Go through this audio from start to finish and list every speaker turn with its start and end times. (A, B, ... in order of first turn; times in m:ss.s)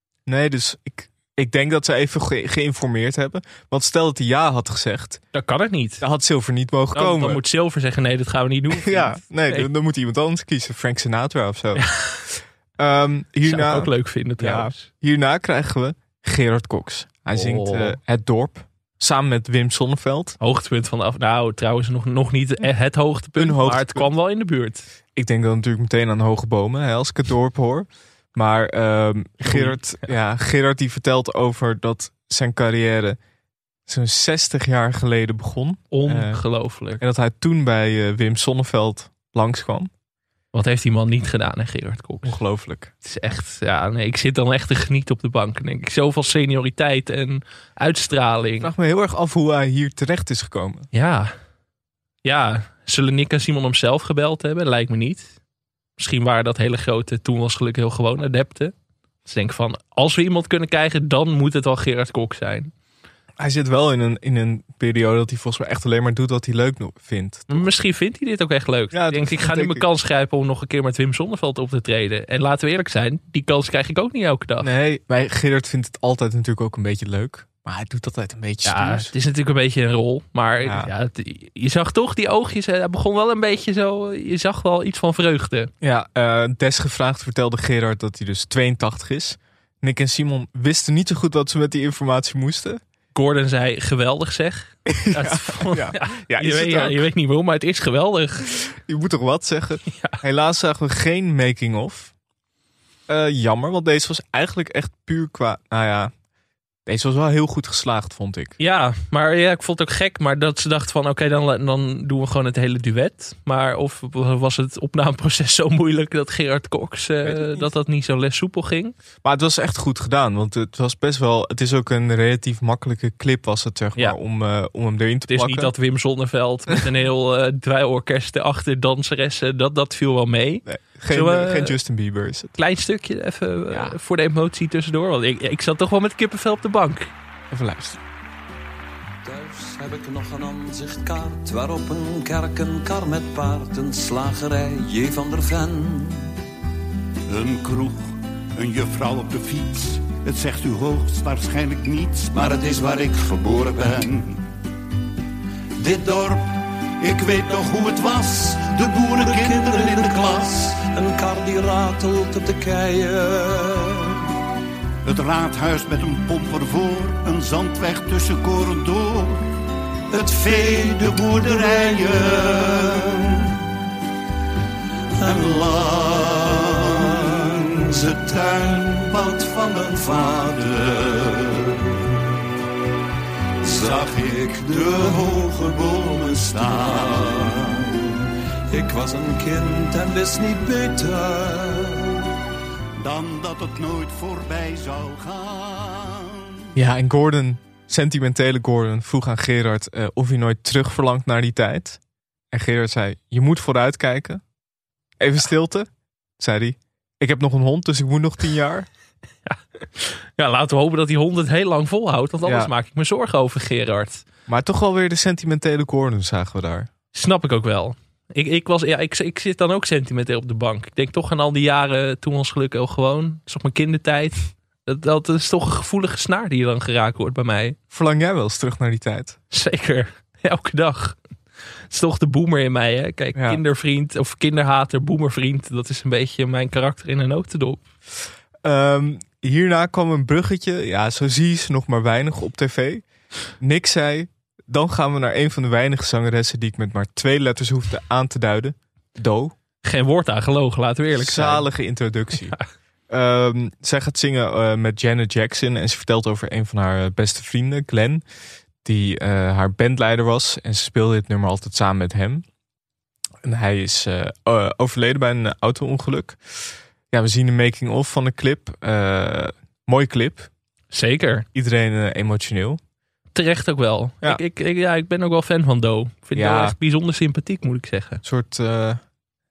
0:00.3-0:05.2 A
0:05.3-0:06.0 B
0:06.0-0:07.4 A
0:06.9-0:09.7 B
0:08.7-0:20.4 A
0:11.8-0:12.2 B
0:13.4-0:14.9 B
0:17.3-0:18.0 B
0:20.4-0:24.9 B
0:23.4-0:24.1 A
0:25.1-0:33.2 A
0:29.4-0:29.8 B
0:33.9-0:36.4 A
0:35.9-0:37.0 B
0:37.0-0:39.9 A
0:40.5-0:42.4 B
0:42.2-0:42.9 A
0:43.0-0:48.7 B
0:48.6-0:50.9 A
0:50.9-0:51.3 B
0:52.2-0:55.3 B
0:56.0-0:58.7 B
0:59.2-1:02.7 B
1:03.4-1:07.7 A
1:07.5-1:14.7 B
1:08.9-1:09.9 A
1:14.6-1:19.1 A
1:18.6-1:25.7 B
1:20.6-1:20.9 A
1:25.8-1:32.8 A
1:33.1-1:38.5 B
1:34.8-1:37.1 A
1:38.6-1:42.1 A
1:39.9-1:40.2 B
1:43.1-1:46.1 A
1:46.8-1:48.6 A
1:48.6-1:58.9 B
1:57.2-1:57.7 A
1:59.2-2:05.7 A
2:05.3-2:11.8 B
2:10.6-2:12.5 A
2:12.6-2:17.1 B
2:13.7-2:14.0 A
2:17.5-2:18.0 A
2:19.2-2:26.3 C
2:27.3-2:34.4 D
2:32.4-2:33.2 C
2:35.8-2:36.2 C
2:36.1-2:36.3 D
2:37.0-2:40.7 D
2:38.9-2:44.2 C
2:45.0-2:49.4 D
2:50.1-2:53.0 C
2:50.2-2:52.7 D
2:55.2-3:01.9 C
2:55.2-2:57.4 D
3:03.6-3:08.1 C
3:03.7-3:05.3 D
3:06.3-3:07.3 D
3:08.7-3:12.2 C
3:13.0-3:16.4 D
3:16.7-3:22.0 A
3:22.5-3:24.4 A
3:25.2-3:28.9 A
3:29.4-3:34.2 B
3:32.4-3:32.7 A
3:34.5-3:36.9 A
3:37.1-3:47.8 B
3:47.9-3:49.4 A
3:49.5-3:51.2 B
3:51.9-3:57.8 B
3:53.3-3:53.6 A
3:58.6-4:03.0 A
4:03.6-4:09.5 A
4:09.8-4:11.7 B
4:11.2-4:12.6 A
4:13.1-4:18.2 A
4:18.8-4:22.4 A
4:23.4-4:30.5 A
4:30.9-4:31.4 B
4:31.5-4:32.8 A
4:33.3-4:38.2 B
4:36.3-4:36.8 A
4:38.2-4:39.0 A